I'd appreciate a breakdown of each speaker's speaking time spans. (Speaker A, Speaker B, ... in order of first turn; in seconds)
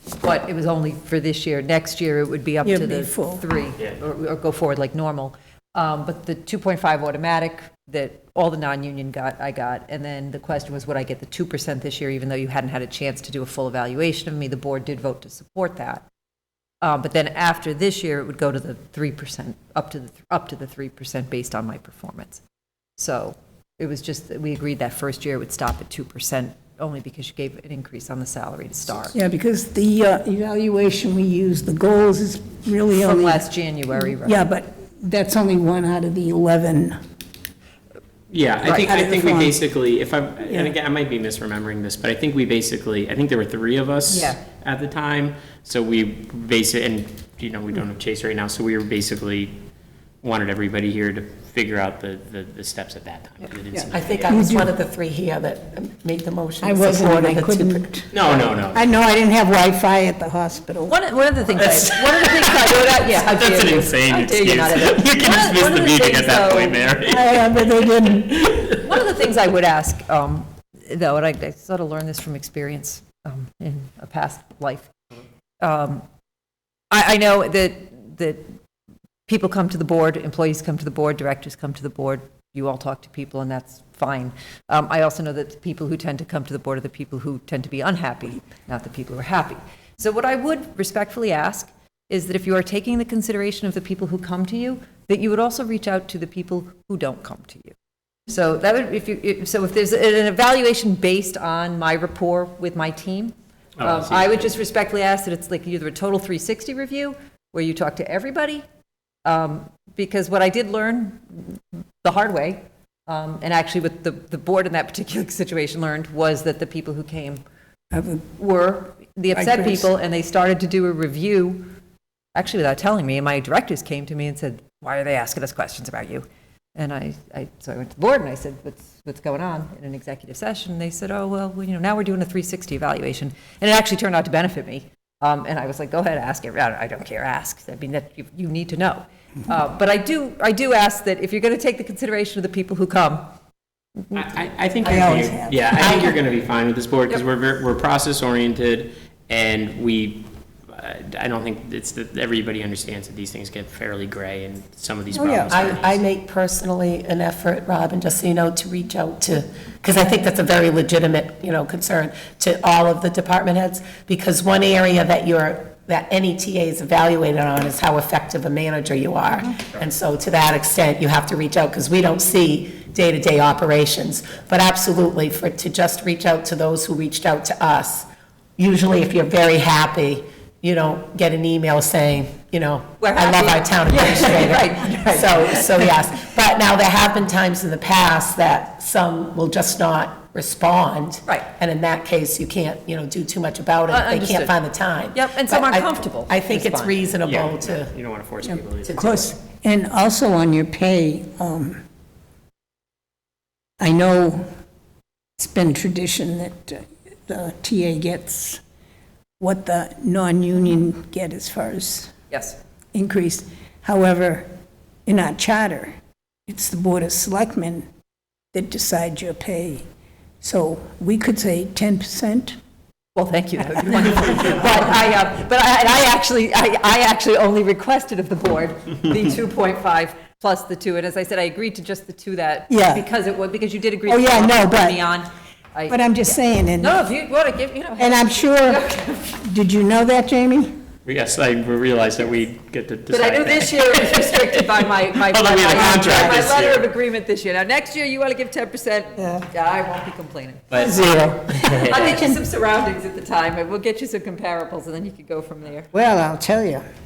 Speaker A: 0.2-16.0, 16.8-22.4, 23.0-29.1, 33.0-34.4, 44.1-44.4, 60.9-66.8, 68.8-74.9, 75.6-76.0, 76.9-78.6, 79.3-97.8, 98.3-108.6, 109.2-117.4, 118.4-121.7, 122.3-143.2, 183.0-185.8, 193.9-194.5, 195.1-197.0, 212.3-212.6, 223.1-239.4, 243.1-255.9
Speaker B: 2.6-3.4, 29.1-33.5, 34.0-37.0, 38.6-39.6, 40.5-40.7, 53.7-54.7, 56.6-58.1, 58.7-60.9, 67.0-68.4, 117.9-118.3, 119.3-119.9, 144.8-146.1, 155.1-155.6, 198.5-201.8, 203.8-204.4, 205.4-208.6, 209.4-212.1, 212.9-214.5, 215.1-215.9, 216.5-217.9, 218.5-219.8, 220.4-222.6, 232.7-233.1, 234.1-235.0, 235.9-237.0, 238.0-240.8, 246.0-246.3, 249.2-249.4, 250.8-252.4, 255.9-256.9
Speaker C: 38.3-49.6, 50.2-54.2, 58.1-58.8, 61.5-67.7, 68.2-69.0, 103.8-104.5, 144.1-155.9, 197.2-199.3, 241.1-246.9, 250.7-252.2
Speaker D: 53.9-57.9, 155.5-197.9, 198.9-199.3